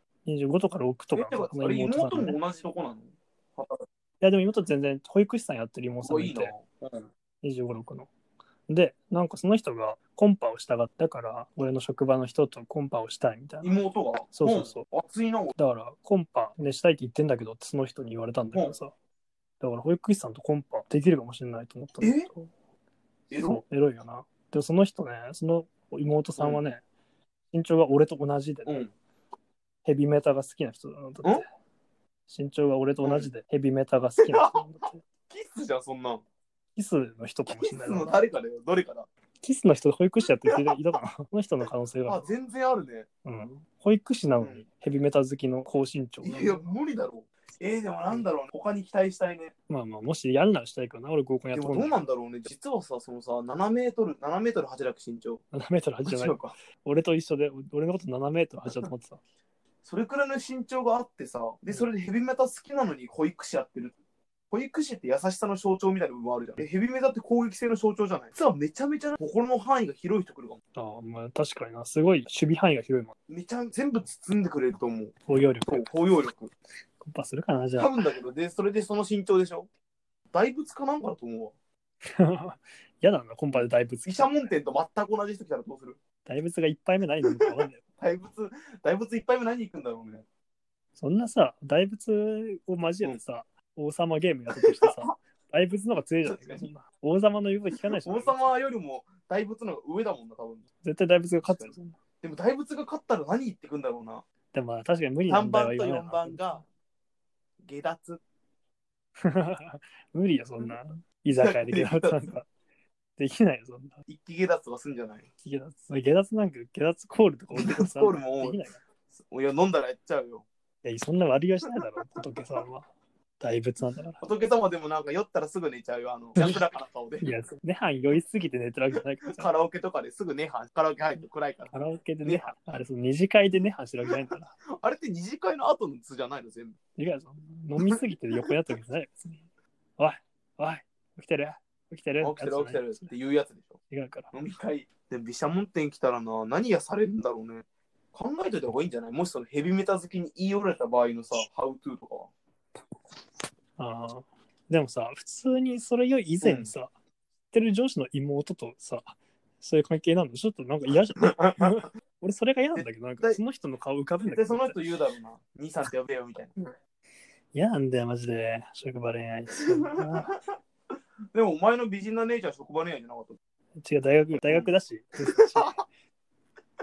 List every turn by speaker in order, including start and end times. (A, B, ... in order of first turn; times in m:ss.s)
0:00.3-0:02.4 A
0:01.2-0:03.8 B
0:04.2-0:06.5 A
0:06.0-0:07.1 B
0:07.4-0:08.1 A
0:08.7-0:13.8 A
0:13.6-0:15.5 B
0:14.3-0:14.8 A
0:15.6-0:18.9 A
0:19.6-0:22.5 A
0:22.0-0:22.3 B
0:23.3-0:23.6 B
0:23.4-0:26.8 A
0:27.5-0:28.9 A
0:28.7-0:28.9 B
0:29.8-0:31.4 A
0:32.3-0:35.0 A
0:33.0-0:33.3 B
0:34.2-0:34.6 B
0:35.3-0:36.2 B
0:36.8-0:38.2 A
0:37.5-0:39.1 B
0:39.4-0:42.3 A
0:42.1-0:43.1 B
0:43.2-0:46.7 A
0:44.4-0:44.6 B
0:46.2-0:49.5 B
0:49.7-0:52.0 A
0:51.5-0:55.4 B
0:55.5-0:59.2 A
0:56.0-0:56.6 B
0:59.8-1:04.0 B
1:04.5-1:10.6 B
1:10.8-1:13.1 A
1:13.3-1:15.1 B
1:15.3-1:15.9 A
1:15.7-1:16.5 B
1:17.0-1:18.0 A
1:17.8-1:19.7 B
1:20.3-1:21.6 B
1:22.0-1:24.3 A
1:23.6-1:26.0 B
1:26.3-1:27.8 A
1:27.3-1:30.3 B
1:31.0-1:38.5 A
1:34.5-1:35.2 B
1:36.2-1:36.7 B
1:38.0-1:40.7 B
1:40.8-1:42.0 A
1:41.4-1:44.2 B
1:44.5-1:46.6 A
1:45.3-1:46.6 B
1:47.6-1:48.2 B
1:49.2-1:52.5 A
1:51.4-1:52.3 B
1:53.2-1:54.0 A
1:54.1-1:55.3 B
1:55.4-1:58.8 A
1:57.5-1:58.6 B
1:59.1-2:00.5 B
2:00.8-2:04.2 A
2:04.2-2:07.3 B
2:06.4-2:06.6 A
2:07.2-2:09.5 A
2:09.3-2:12.5 B
2:11.7-2:14.6 A
2:14.7-2:16.8 B
2:17.0-2:19.4 A
2:20.0-2:23.1 A
2:22.2-2:23.8 B
2:23.9-2:24.3 A
2:24.3-2:32.3 B
2:33.8-2:36.9 A
2:36.4-2:36.7 B
2:37.5-2:44.8 A
2:41.2-2:41.7 B
2:42.8-2:43.4 B
2:44.2-2:46.6 B
2:47.5-2:50.3 A
2:49.6-2:50.4 B
2:51.3-2:53.4 B
2:53.8-2:55.8 A
2:54.4-2:54.7 B
2:55.2-2:55.8 B